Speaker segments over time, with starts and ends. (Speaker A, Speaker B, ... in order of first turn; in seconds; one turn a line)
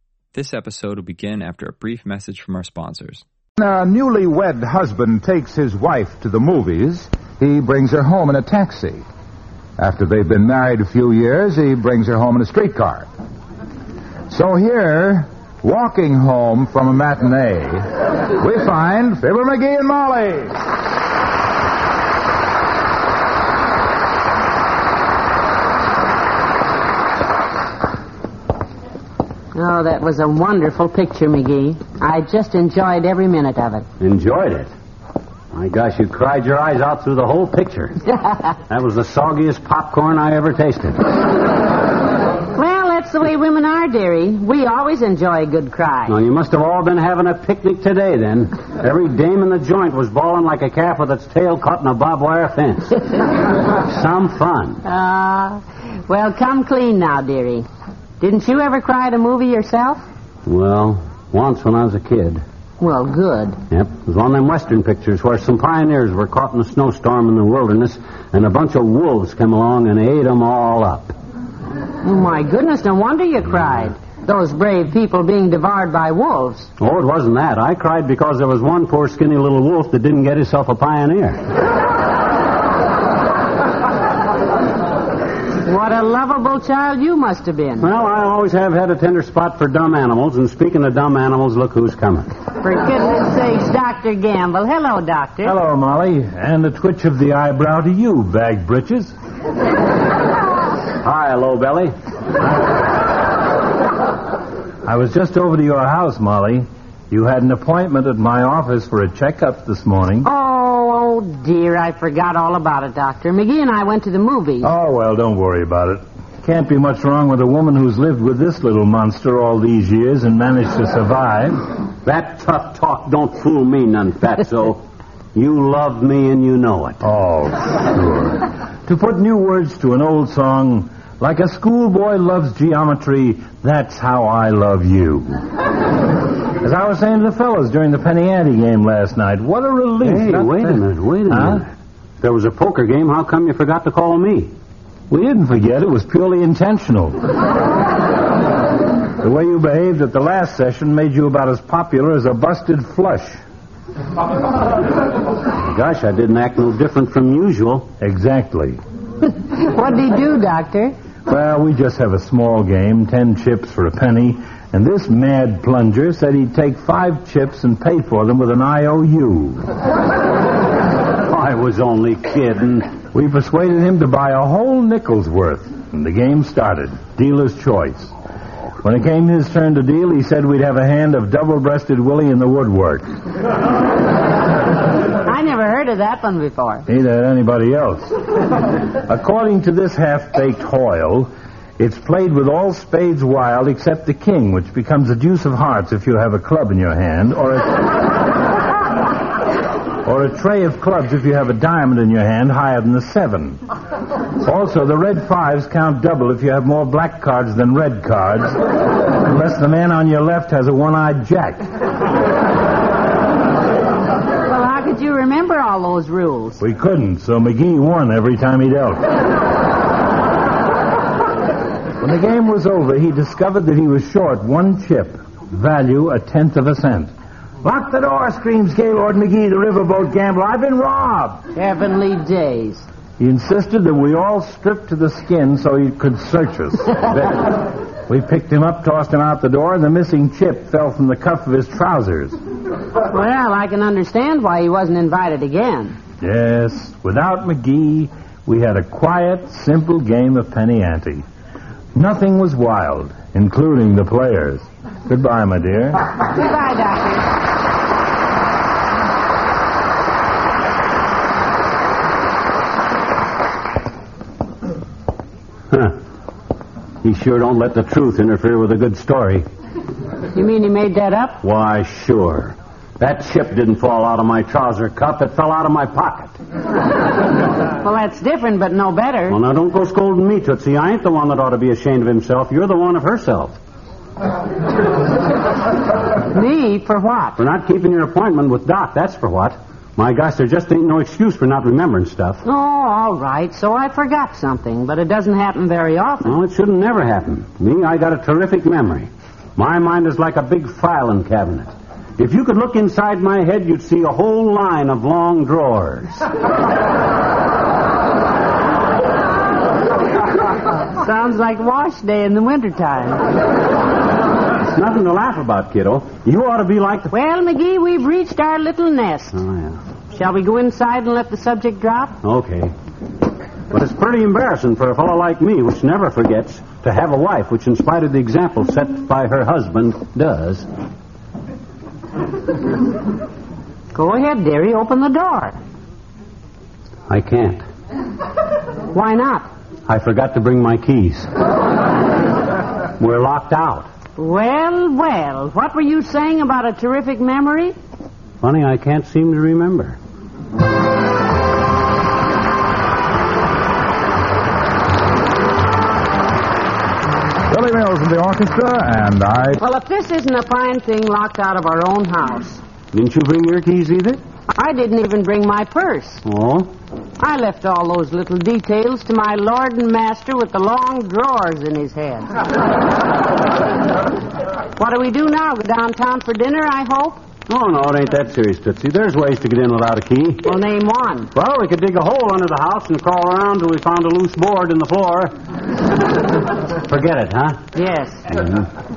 Speaker A: 0.3-3.2
Speaker B: 3.6-9.0
Speaker B: 9.8-13.1
Speaker B: 14.3-20.6
Speaker C: 29.5-33.9
Speaker D: 34.0-34.7
Speaker D: 35.5-38.0
Speaker D: 38.7-41.0
Speaker C: 42.5-46.1
Speaker D: 46.1-53.0
Speaker D: 53.8-54.8
Speaker C: 54.8-57.7
Speaker C: 58.2-60.0
Speaker D: 60.5-62.4
Speaker C: 62.8-63.6
Speaker D: 63.7-71.1
Speaker C: 72.0-76.7
Speaker D: 76.8-81.4
Speaker C: 85.6-87.9
Speaker D: 87.8-92.3
Speaker C: 92.6-95.6
Speaker E: 95.4-99.1
Speaker D: 101.0-101.9
Speaker E: 104.8-110.3
Speaker C: 110.2-114.7
Speaker E: 114.6-121.6
Speaker D: 122.0-124.8
Speaker D: 125.3-127.0
Speaker E: 127.0-135.3
Speaker E: 136.6-141.6
Speaker D: 140.0-141.7
Speaker D: 142.2-144.5
Speaker E: 145.1-147.2
Speaker E: 149.2-153.4
Speaker D: 155.6-157.9
Speaker E: 158.0-158.8
Speaker C: 159.2-160.9
Speaker E: 161.3-169.6
Speaker D: 171.2-172.9
Speaker E: 173.1-178.1
Speaker E: 178.8-183.1
Speaker C: 185.2-186.8
Speaker E: 186.9-188.1
Speaker E: 189.1-197.9
Speaker E: 200.0-203.6
Speaker E: 204.4-211.7
Speaker C: 214.5-216.6
Speaker E: 216.6-219.0
Speaker E: 222.0-227.1
Speaker E: 227.6-231.4
Speaker C: 231.5-232.9
Speaker E: 233.2-242.3
Speaker C: 243.1-246.0
Speaker E: 246.2-251.2
Speaker E: 251.9-256.0
Speaker C: 256.2-257.3
Speaker D: 265.7-265.9
Speaker D: 267.0-269.4
Speaker C: 270.3-271.4
Speaker D: 271.4-276.4
Speaker C: 277.8-279.4
Speaker D: 279.3-283.6
Speaker C: 286.2-287.4
Speaker D: 287.4-292.4
Speaker C: 292.4-296.3
Speaker D: 296.2-306.2
Speaker C: 310.8-313.2
Speaker D: 314.6-317.1
Speaker C: 317.1-319.4
Speaker D: 319.3-319.8
Speaker C: 320.1-322.2
Speaker D: 322.2-322.7
Speaker D: 323.7-330.7
Speaker C: 333.9-335.6
Speaker D: 337.1-337.6
Speaker C: 338.9-339.5
Speaker D: 339.9-341.3
Speaker D: 343.0-343.9
Speaker C: 344.2-347.8
Speaker D: 348.4-350.0
Speaker B: 357.5-359.6
Speaker C: 359.6-362.6
Speaker D: 362.9-364.2
Speaker C: 364.5-366.2
Speaker D: 366.2-366.7
Speaker C: 367.2-372.4
Speaker C: 374.8-377.2
Speaker D: 377.5-380.5
Speaker C: 380.4-381.3
Speaker D: 381.3-385.3
Speaker D: 386.8-387.6
Speaker C: 387.7-388.3
Speaker D: 388.3-388.6